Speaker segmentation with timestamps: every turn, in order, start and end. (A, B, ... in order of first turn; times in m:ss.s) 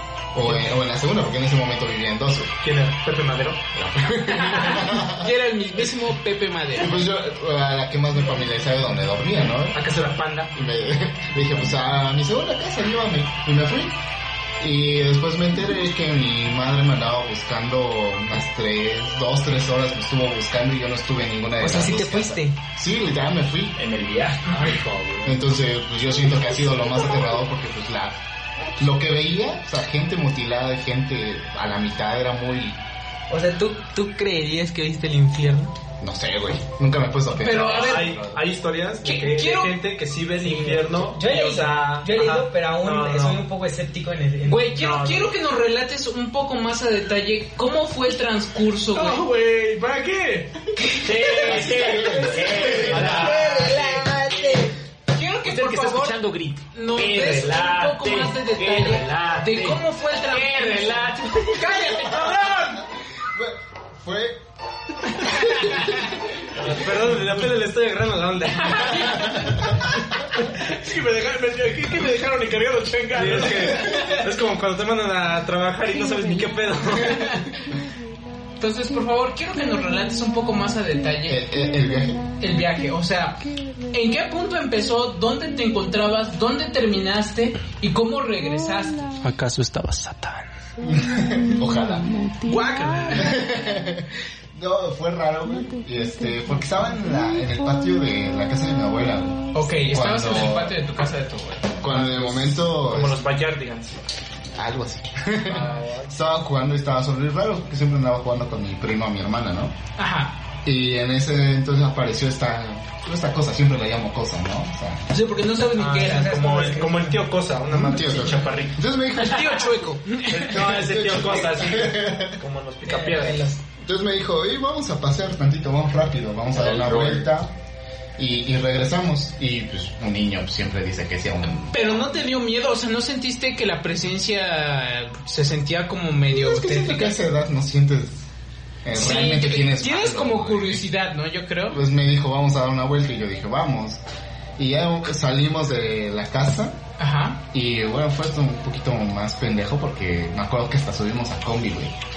0:00.3-0:02.6 A
0:00.4-0:00.7 B
0:02.6-0:04.3 B
0:03.7-0:05.3 A
0:04.5-0:07.0 C
0:06.7-0:09.9 A
0:09.7-0:10.5 B
0:10.5-0:13.9 A
0:14.6-0:23.8 A
0:21.6-0:22.6 D
0:23.7-0:25.4 E
0:25.2-0:28.1 A
0:28.8-0:32.8 A
0:33.3-0:35.7 D
0:36.0-0:38.4 A
0:37.4-0:38.3 C
0:37.7-0:43.4 B
0:39.0-0:40.0 C
0:40.4-0:44.7 D
0:44.4-0:49.2 C
0:44.8-0:45.3 B
0:48.9-0:50.7 F
0:50.9-0:56.2 C
0:51.0-0:53.6 E
0:51.5-0:53.1 A
0:52.6-0:54.4 F
0:52.9-0:53.3 B
0:53.0-0:54.7 D
0:55.4-1:01.9 E
0:56.7-1:02.7 C
1:02.0-1:04.4 A
1:05.2-1:06.0 A
1:06.5-1:09.2 B
1:06.6-1:07.4 A
1:08.8-1:09.3 C
1:10.5-1:14.0 F
1:13.1-1:17.3 B
1:17.1-1:17.5 C
1:18.6-1:21.4 C
1:21.2-1:22.4 A
1:22.4-1:29.1 C
1:29.2-1:30.5 B
1:30.8-1:32.3 A
1:32.4-1:33.4 F
1:33.1-1:40.8 A
1:39.5-1:41.8 C
1:41.8-1:43.2 A
1:41.8-1:44.0 B
1:44.5-1:49.7 A
1:45.4-1:46.2 B
1:50.0-1:50.4 C
1:50.6-1:55.1 A
1:55.1-1:57.0 C
1:55.8-1:58.8 B
1:56.1-1:57.2 D
1:57.6-1:59.8 A
1:59.2-2:00.5 C
2:00.3-2:03.5 B
2:00.5-2:02.4 A
2:02.8-2:03.6 D
2:03.7-2:07.5 A
2:06.5-2:07.3 B
2:08.2-2:12.2 A
2:11.7-2:17.2 C
2:16.3-2:18.2 A
2:18.8-2:20.9 A
2:18.9-2:21.8 C
2:21.7-2:24.0 A
2:24.6-2:26.8 A
2:27.0-2:27.4 C
2:27.5-2:31.9 A